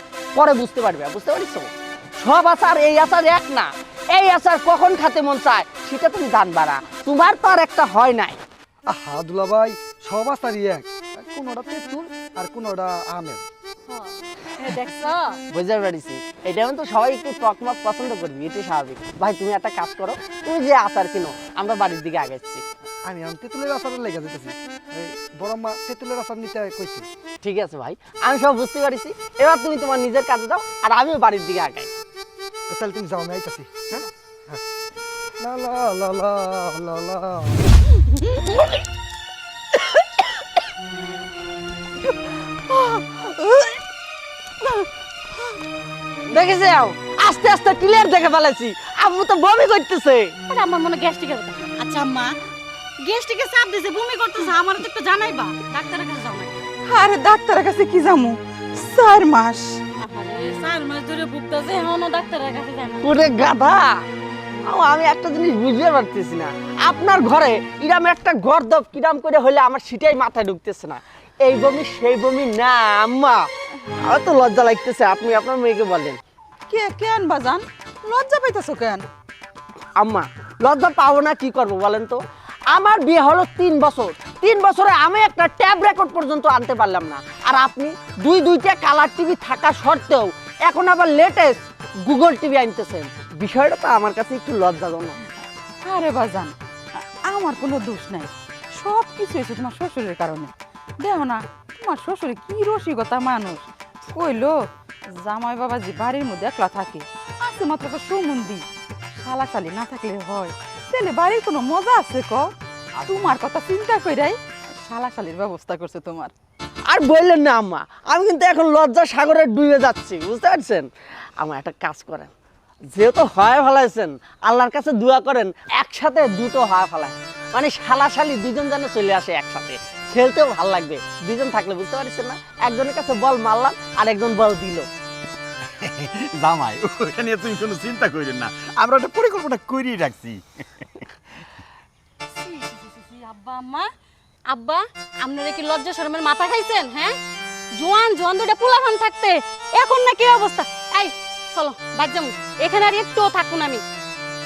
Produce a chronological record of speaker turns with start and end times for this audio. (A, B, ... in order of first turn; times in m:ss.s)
0:00.4-0:08.4 A
0:08.9-0:13.4 B
0:13.9-0:15.4 C
0:15.5-0:22.6 A
0:23.0-0:27.1 B
0:27.4-0:31.9 A
0:32.7-0:34.6 B
0:35.4-0:37.6 B
0:42.9-0:43.6 A
0:46.3-0:50.4 A
0:50.5-0:52.4 C
0:53.0-0:56.6 C
0:56.9-0:59.8 D
1:00.0-1:03.0 C
1:03.0-1:04.0 A
1:04.6-1:13.5 A
1:14.0-1:16.2 A
1:16.7-1:19.0 D
1:20.0-1:35.2 A
1:35.8-1:36.6 D
1:37.3-1:48.7 D
1:49.2-1:52.5 D
1:53.0-1:56.3 D
1:56.9-2:02.3 A
2:03.0-2:14.9 A
2:15.8-2:21.1 E
2:22.4-2:23.9 C
2:24.5-2:27.2 C
2:27.8-2:33.8 C